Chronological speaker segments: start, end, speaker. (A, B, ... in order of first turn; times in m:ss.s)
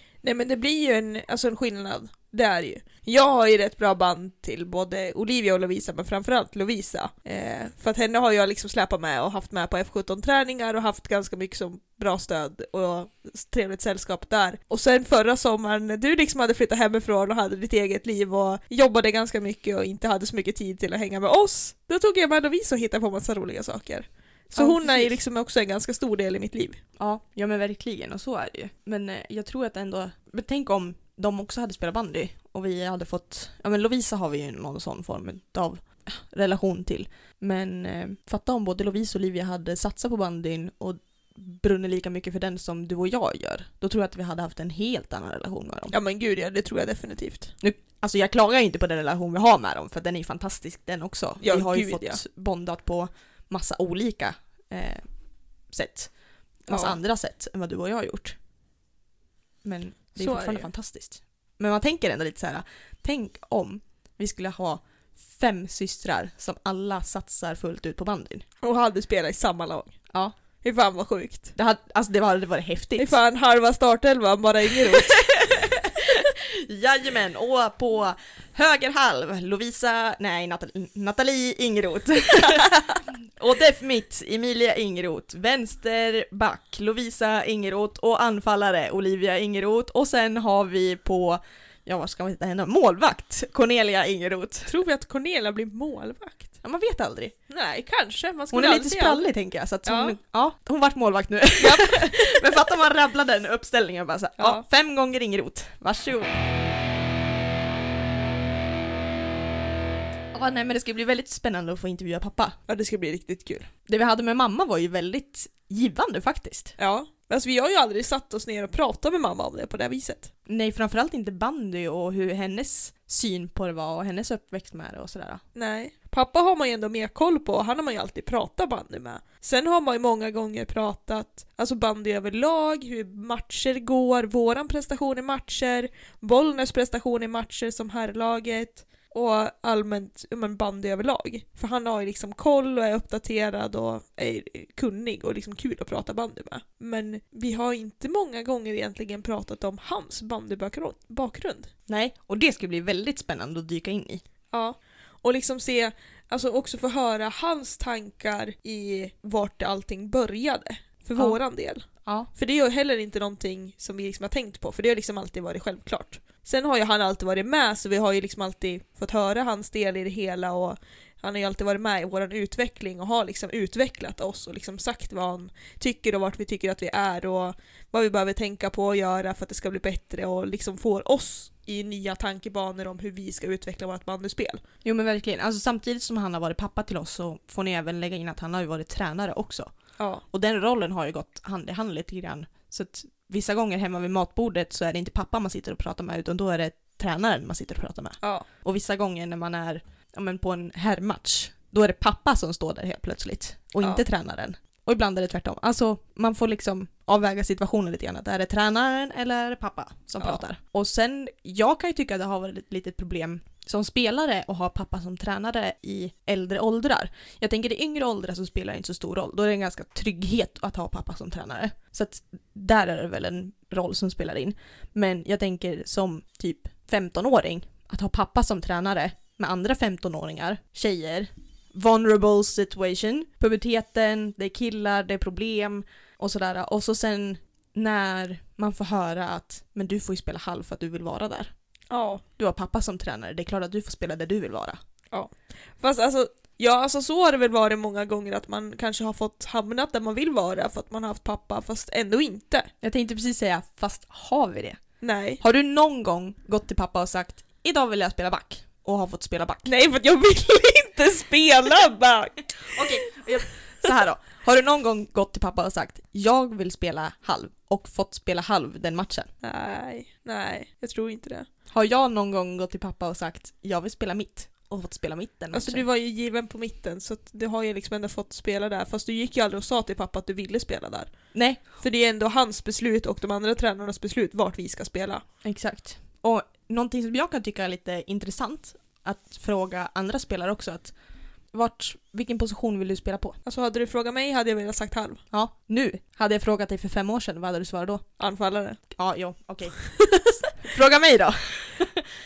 0:00.2-0:26.8 A
0:24.5-0:25.1 B
0:27.0-0:45.9 B
0:45.9-0:47.5 A
0:47.6-0:55.0 B
0:51.4-0:52.2 A
0:55.7-0:56.1 B
0:56.6-0:58.4 B
0:56.7-0:57.0 A
0:59.6-1:08.5 B
1:00.2-1:00.7 A
1:08.6-1:09.9 A
1:10.6-1:11.5 A
1:11.6-1:13.2 B
1:13.0-1:15.5 A
1:15.1-1:34.7 B
1:34.7-1:36.5 A
1:36.6-1:37.4 B
1:37.5-1:39.3 A
1:38.5-1:46.3 B
1:39.8-1:40.2 A
1:41.6-1:42.6 A
1:44.4-1:44.6 A
1:50.3-1:52.6 B
1:52.7-1:53.7 A
1:53.9-1:56.8 B
1:56.8-2:00.3 A
2:00.5-2:05.4 B
2:05.5-2:31.7 A
2:31.9-2:34.2 B
2:34.5-2:41.8 A
2:42.0-2:42.3 B
2:42.4-3:04.6 A
3:04.8-3:09.7 B
3:10.0-3:10.2 A
3:10.3-4:01.5 B
4:01.9-4:02.2 A
4:02.4-4:04.8 B
4:05.1-4:12.7 A
4:12.8-4:14.8 B
4:15.0-4:15.4 A
4:15.4-4:19.7 B
4:19.6-4:22.9 A
4:22.7-4:29.3 B
4:29.4-4:31.5 A
4:31.7-4:35.8 B
4:35.5-4:41.1 A
4:41.3-4:41.6 B
4:41.8-4:45.2 A
4:45.4-4:50.9 B
4:51.5-4:53.4 B
4:53.4-4:55.2 A
4:55.3-4:58.0 B
4:58.2-4:58.8 A
4:58.9-5:02.0 B